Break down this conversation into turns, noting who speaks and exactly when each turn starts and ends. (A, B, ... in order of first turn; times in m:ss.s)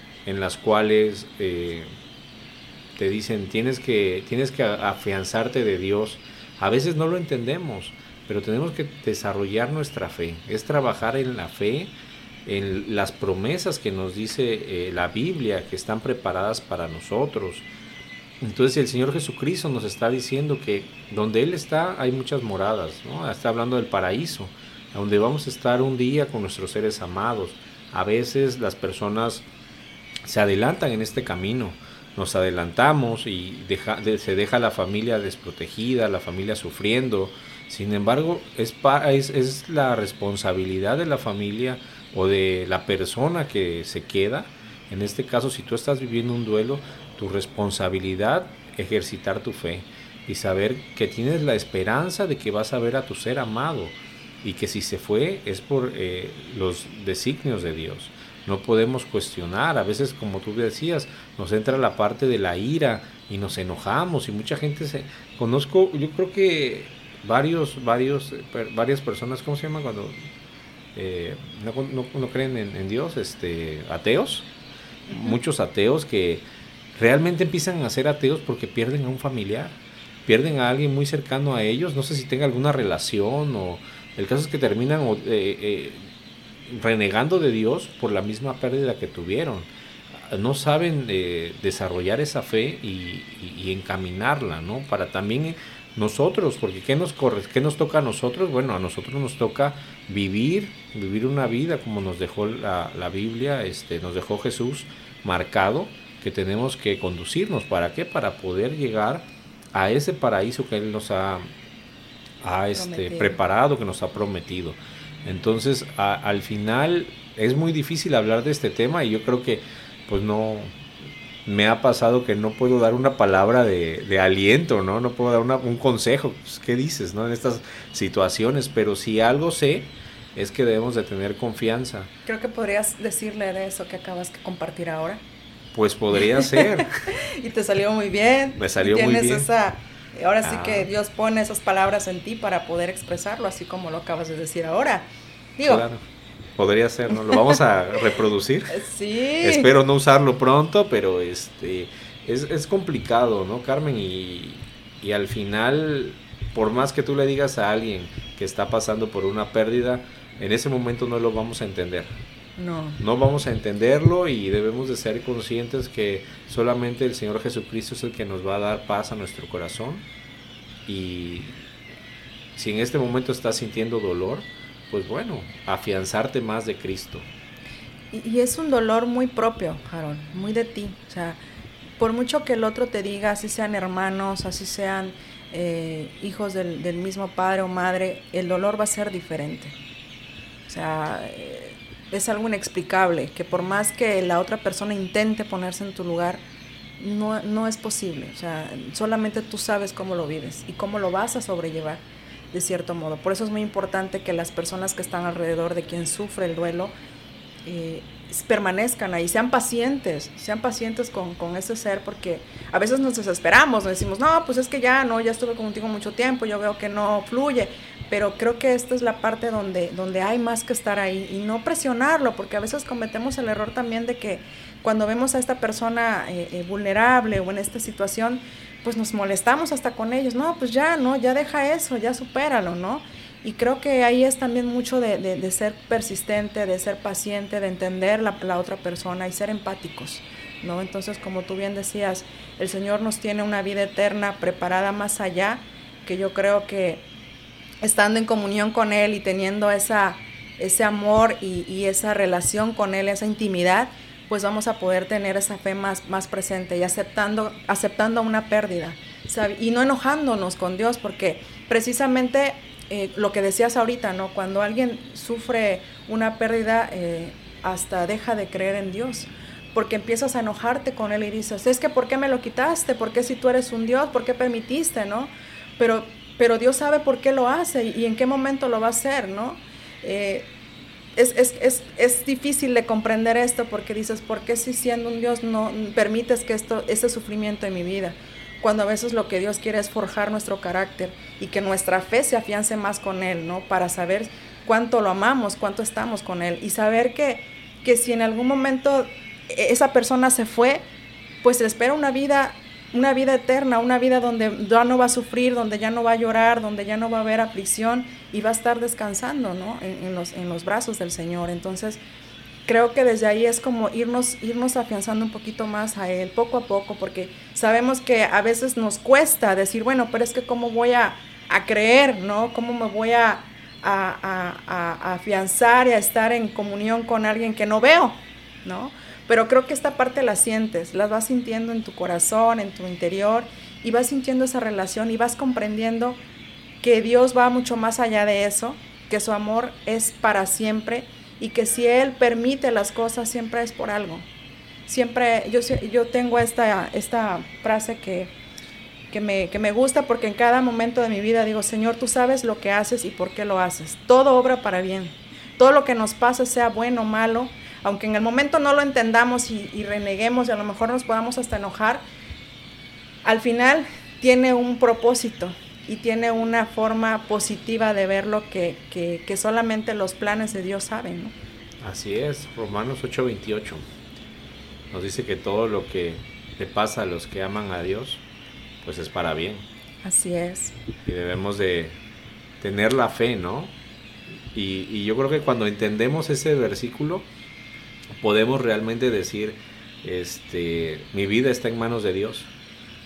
0:00.3-0:01.9 A
0:03.0-0:11.9 A
0:12.4-0:17.7 A
0:18.4-0:29.4 A
0:30.3-1:10.2 A
1:11.0-1:14.5 A
1:15.1-1:16.4 A
1:17.0-1:26.1 A
1:26.7-1:51.5 A
1:52.4-2:00.7 A
1:52.8-1:53.4 B
2:01.4-2:12.1 A
2:12.3-2:15.2 B
2:15.7-2:16.9 A
2:16.2-2:25.9 B
2:18.6-2:19.5 A
2:20.4-2:20.9 A
2:25.6-2:26.0 A
2:26.6-2:28.8 A
2:27.3-2:27.5 B
2:28.7-2:29.7 B
2:29.4-2:42.1 A
2:42.6-2:43.0 B
2:43.0-2:50.0 A
2:50.9-2:51.7 A
2:52.6-2:57.3 A
2:58.1-3:01.4 B
3:02.0-3:09.8 B
3:10.7-3:16.4 B
3:17.0-3:26.9 B
3:27.6-4:07.0 B
4:07.8-4:40.5 B
4:41.2-5:00.8 B
5:01.4-5:12.0 B
5:12.7-5:36.2 B
5:36.8-5:44.3 B
5:44.9-5:48.3 B
5:49.1-6:02.0 B
6:03.2-6:11.3 B
6:11.8-6:13.8 A
6:14.9-6:18.2 A
6:18.8-6:19.6 A
6:20.0-6:20.8 B
6:21.0-6:22.0 A
6:22.6-6:23.7 A
6:24.5-6:27.3 A
6:28.2-6:32.5 A